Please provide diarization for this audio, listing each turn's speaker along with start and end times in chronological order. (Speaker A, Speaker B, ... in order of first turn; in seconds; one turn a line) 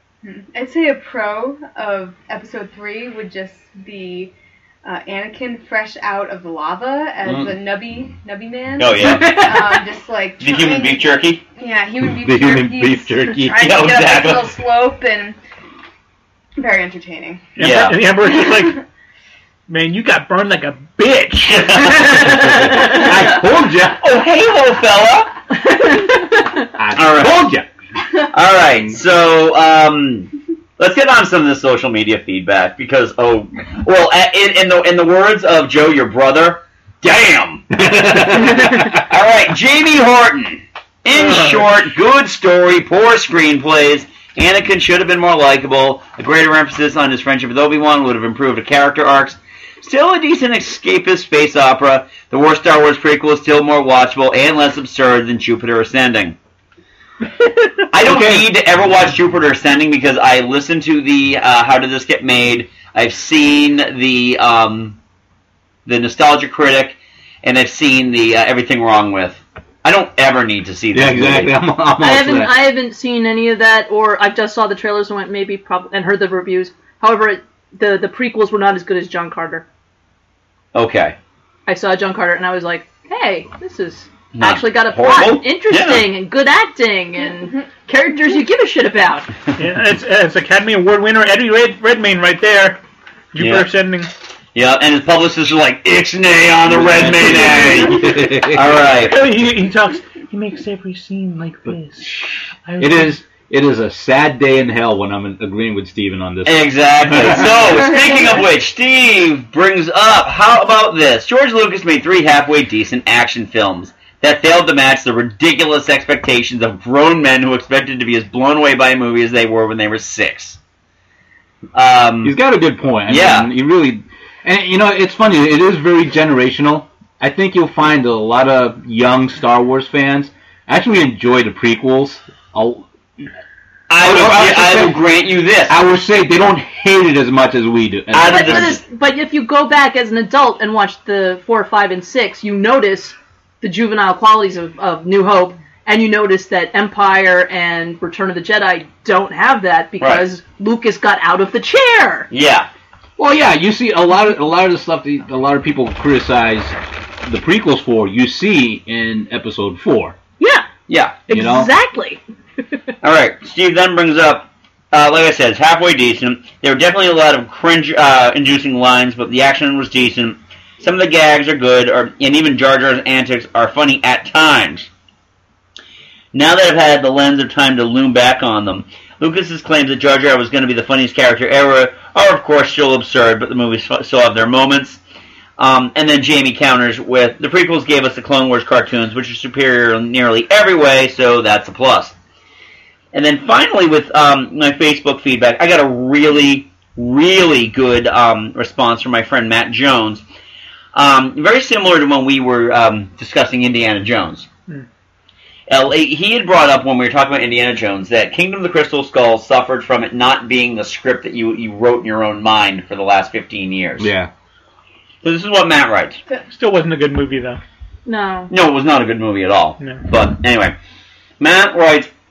Speaker A: 0.2-4.3
Speaker A: 4.8-15.4
Speaker B: 8.8-9.5
Speaker C: 9.1-9.5
Speaker B: 10.4-11.4
Speaker D: 12.0-13.8
Speaker B: 13.5-14.6
Speaker A: 16.6-17.5
Speaker E: 17.6-18.8
Speaker B: 17.6-18.0
Speaker E: 19.7-22.3
Speaker B: 21.5-23.0
Speaker D: 22.3-24.0
Speaker B: 24.0-25.3
Speaker C: 25.7-26.3
Speaker D: 26.7-27.7
Speaker B: 26.9-27.5
Speaker B: 28.3-37.8
Speaker D: 37.7-39.0
Speaker B: 38.3-56.4
Speaker E: 41.2-41.6
Speaker B: 57.9-65.0
Speaker D: 58.0-58.5
Speaker B: 65.9-71.6
Speaker D: 70.9-72.6
Speaker C: 72.0-79.7
Speaker B: 80.7-81.2
Speaker C: 81.7-89.3
Speaker B: 84.3-86.1
Speaker E: 89.6-92.8
Speaker E: 93.3-94.1
Speaker B: 93.4-93.7
Speaker B: 94.5-99.2
Speaker D: 96.7-98.9
Speaker E: 99.0-103.2
Speaker D: 102.8-107.8
Speaker B: 106.5-120.6
Speaker B: 121.8-122.4
Speaker D: 122.2-132.9
Speaker B: 123.1-123.5
Speaker B: 133.9-135.8
Speaker D: 134.0-135.1
Speaker D: 135.7-138.8
Speaker B: 138.1-138.8
Speaker C: 138.3-152.3
Speaker B: 150.0-150.2
Speaker B: 152.3-152.7
Speaker D: 153.2-160.2
Speaker C: 160.4-160.7
Speaker B: 160.9-161.2
Speaker C: 161.3-162.2
Speaker D: 161.3-161.7
Speaker B: 163.0-174.9
Speaker B: 176.3-185.0
Speaker B: 185.6-192.1
Speaker B: 193.1-200.2
Speaker B: 200.9-204.5
Speaker B: 205.7-214.1
Speaker D: 214.0-214.3
Speaker B: 215.2-216.2
Speaker E: 216.5-217.6
Speaker C: 218.1-218.5
Speaker B: 218.5-220.8
Speaker E: 219.8-220.1
Speaker B: 221.4-222.1